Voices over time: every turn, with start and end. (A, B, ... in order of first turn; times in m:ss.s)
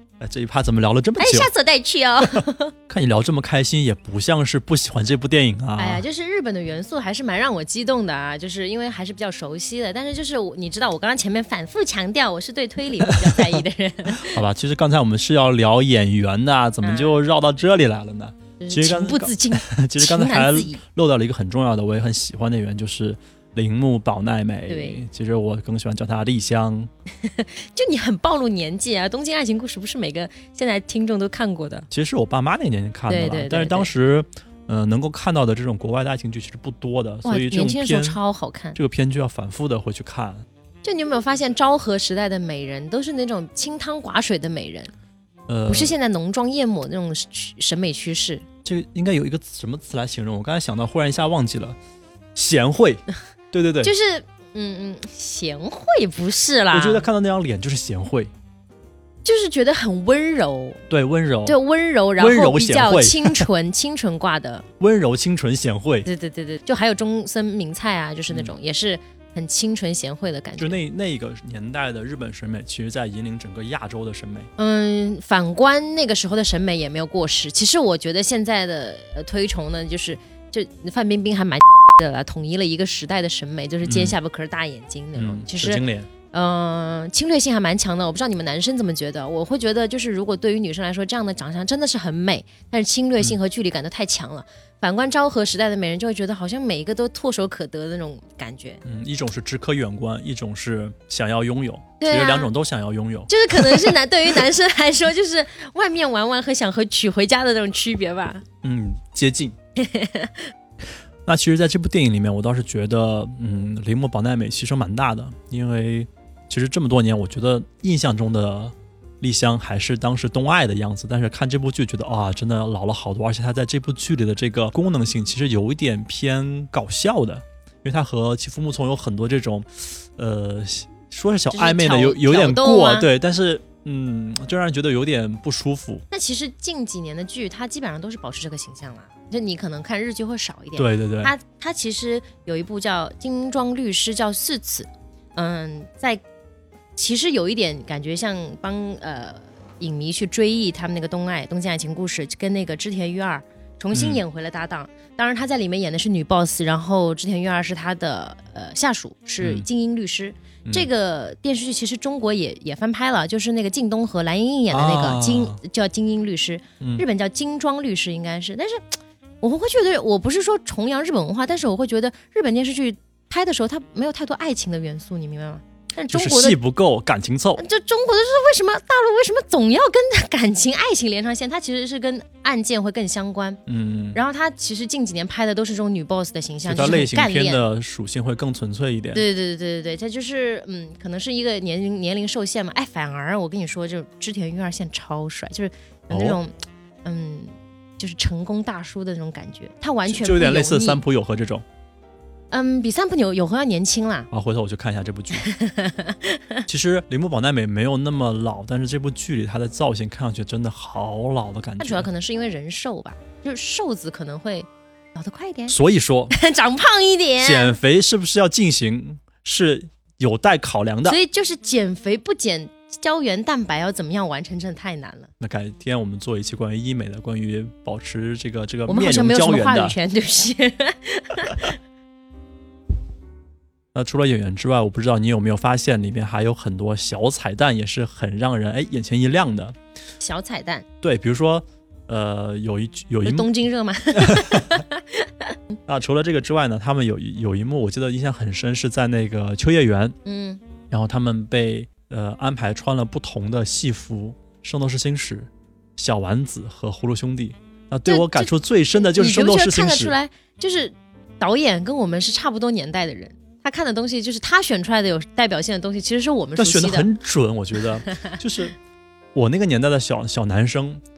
0:00.2-0:01.5 A
0:01.2-0:02.7 B
0:02.9-0:06.0 A
0:05.8-0:14.4 B
0:13.0-0:13.6 A
0:14.1-0:26.9 A
0:16.8-0:17.2 B
0:18.6-0:20.8 B
0:24.7-0:25.0 B
0:27.2-0:31.9 B
0:31.9-0:38.2 A
0:33.1-0:33.9 B
0:37.2-0:38.8 B
0:38.7-0:40.4 A
0:40.8-0:44.9 B
0:45.5-0:45.9 A
0:45.7-0:48.4 B
0:48.6-0:51.8 A
0:52.4-0:53.9 A
0:53.8-0:57.1 B
0:56.7-0:58.3 A
0:59.2-1:00.8 B
1:00.9-1:01.6 A
1:01.4-1:04.6 B
1:02.2-1:03.5 A
1:04.8-1:06.1 A
1:06.0-1:10.8 B
1:10.6-1:14.5 A
1:14.6-1:38.8 B
1:23.8-1:24.2 A
1:25.2-1:26.1 A
1:38.8-1:44.4 A
1:42.0-1:42.5 B
1:43.3-1:48.4 B
1:48.6-1:49.5 A
1:49.8-1:50.5 B
1:51.2-2:16.0 A
2:11.5-2:13.1 B
2:16.1-2:26.2 B
2:20.8-2:21.3 A
2:27.0-2:56.6 B
2:33.9-2:34.2 A
2:39.4-2:39.6 A
2:44.7-2:45.6 A
2:56.1-2:57.6 A
2:57.6-3:03.6 B
3:03.7-3:04.2 A
3:04.1-3:07.6 B
3:06.6-3:09.2 A
3:09.1-3:16.5 B
3:16.1-3:16.4 A
3:17.0-3:21.0 B
3:20.0-3:21.6 A
3:22.5-3:24.3 B
3:24.3-3:25.5 A
3:25.4-3:26.6 B
3:26.7-3:32.1 A
3:31.8-3:35.8 B
3:35.7-3:36.3 A
3:36.3-3:37.8 B
3:37.4-3:41.2 A
3:41.0-3:45.3 B
3:45.4-3:50.0 A
3:48.9-3:51.8 B
3:53.9-3:59.8 A
4:00.2-4:00.8 B
4:01.0-4:03.5 A
4:03.2-4:05.6 B
4:04.1-4:04.8 A
4:05.9-4:10.1 A
4:10.2-4:10.6 B
4:10.9-4:20.1 A
4:18.1-4:27.1 B
4:26.6-4:28.7 A
4:28.0-4:28.4 B
4:29.4-4:31.0 A